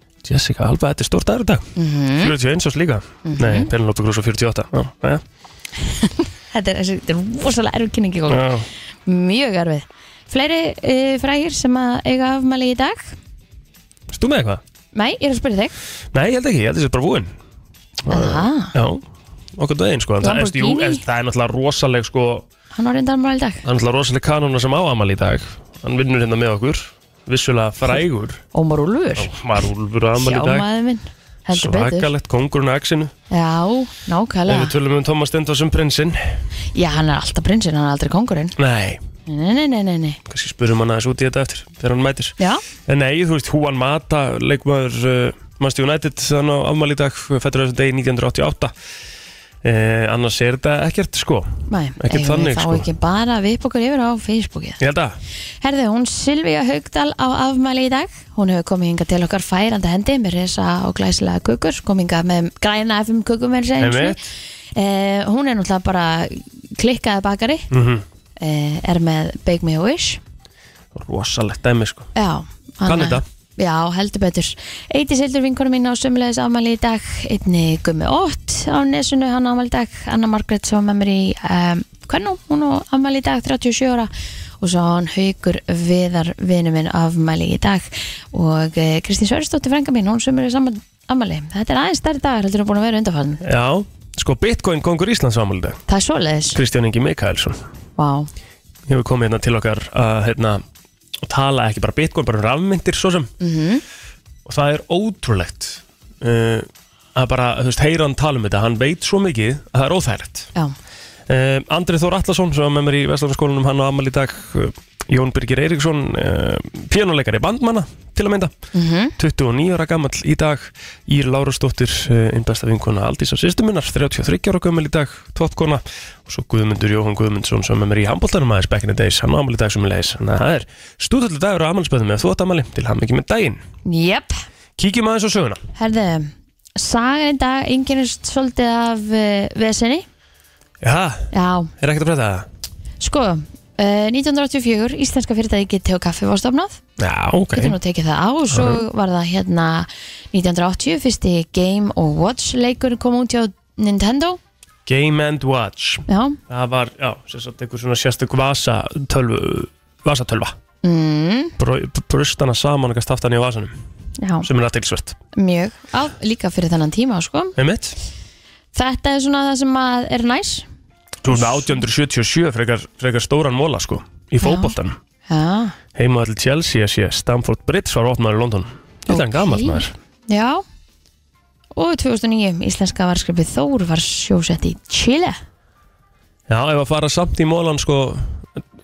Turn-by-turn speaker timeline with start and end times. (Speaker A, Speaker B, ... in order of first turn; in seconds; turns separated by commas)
Speaker A: 0.2-1.6, Speaker B: 1.8-2.3, Speaker A: 2.2-5.2, Speaker B: 3.2-3.7, Speaker B: 6.0-8.4, Speaker A: 8.3-8.7, Speaker B: 9.1-13.1, Speaker A: 14.1-14.6, Speaker B: 14.9-15.7, Speaker A: 16.1-17.3, Speaker A: 18.1-19.0, Speaker B: 18.1-18.7, Speaker A: 19.6-22.4, Speaker B: 20.2-21.0, Speaker B: 22.7-23.6, Speaker A: 23.6-28.4, Speaker B: 28.5-29.3, Speaker A: 29.2-30.7, Speaker B: 30.2-32.1, Speaker A: 31.5-33.1, Speaker B: 33.3-34.7, Speaker A: 34.5-36.4, Speaker B: 36.7-38.5, Speaker A: 38.6-39.0, Speaker B: 39.2-40.2, Speaker A: 40.3-42.3, Speaker A: 42.9-48.7, Speaker A: 49.6-52.9, Speaker B: 51.7-54.8, Speaker A: 54.8-55.2, Speaker B: 55.6-64.2, Speaker A: 63.8-64.2, Speaker B: 64.8-67.7, Speaker A: 67.7-68.0, Speaker B: 68.4-70.2, Speaker A: 70.9-72.1, Speaker B: 72.2-93.4, Speaker A: 72.8-73.2, Speaker A: 93.4-95.8, Speaker B: 95.9-96.6, Speaker A: 96.5-97.6, Speaker B: 98.0-98.3, Speaker A: 98.9-100.6, Speaker A: 101.2-103.3, Speaker B: 103.4-103.8, Speaker A: 104.5-110.5, Speaker A: 111.3-118.5, Speaker B: 118.7-119.1, Speaker A: 119.2-133.6, Speaker B: 133.8-134.4, Speaker A: 134.8-135.6, Speaker B: 135.8-140.1, Speaker A: 140.8-142.4, Speaker B: 141.3-141.7, Speaker B: 143.0-146.8, Speaker A: 147.0-147.8, Speaker B: 147.5-154.4, Speaker A: 148.5-148.8, Speaker A: 154.8-160.5, Speaker B: 156.1-156.4, Speaker B: 160.8-161.5, Speaker A: 161.6-163.7, Speaker B: 164.2-164.5, Speaker A: 164.4-165.2, Speaker B: 165.3-167.5, Speaker A: 167.6-167.9, Speaker B: 168.7-170.7, Speaker A: 171.2-174.9, Speaker B: 171.3-171.7, Speaker B: 174.4-174.7, Speaker B: 175.3-175.8, Speaker A: 175.9-179.9, Speaker B: 179.1-180.6, Speaker B: 181.7-185.4, Speaker A: 186.5-188.5